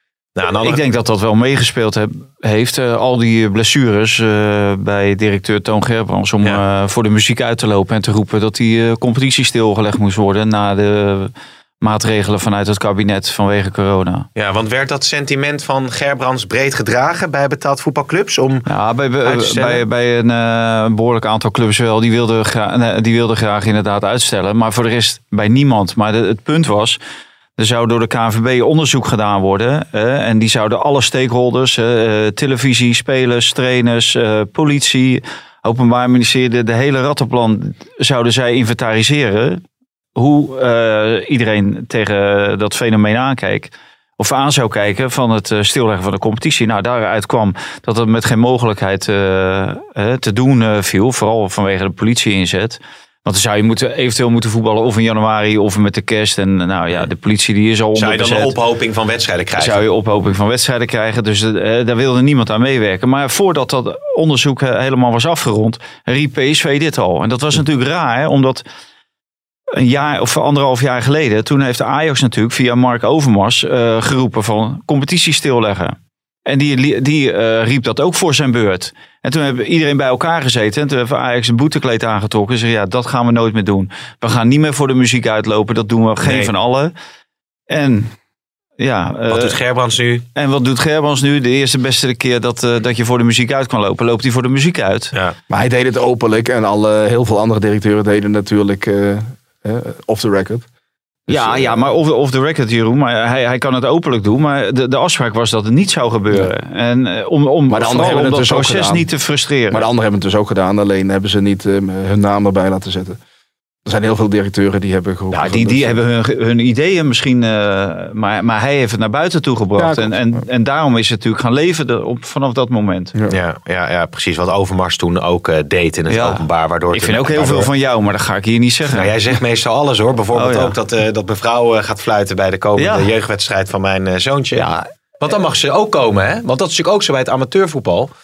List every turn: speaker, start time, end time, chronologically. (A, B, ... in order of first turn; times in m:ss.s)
0:00.4-0:00.8 A
0:00.5-0:14.3 B
0:14.4-0:18.7 A
0:18.7-0:27.0 B
0:19.2-0:19.8 A
0:27.6-0:39.6 B
0:40.2-0:58.5 B
0:57.9-0:59.8 A
0:59.6-1:08.6 B
1:09.7-1:26.9 B
1:26.2-1:26.5 A
1:27.7-1:28.1 B
1:28.8-1:29.6 B
1:29.3-1:30.2 A
1:30.3-1:35.1 B
1:35.5-1:40.6 C
1:41.3-1:49.9 B
1:41.3-1:41.8 C
1:47.7-1:49.1 C
1:49.7-1:53.2 C
1:53.8-1:56.0 C
1:55.3-2:03.1 B
1:59.8-2:00.2 C
2:03.3-2:07.7 A
2:06.1-2:09.1 B
2:08.9-2:14.7 A
2:10.3-2:10.7 B
2:12.8-2:13.1 B
2:14.6-2:14.9 B
2:15.2-2:18.1 A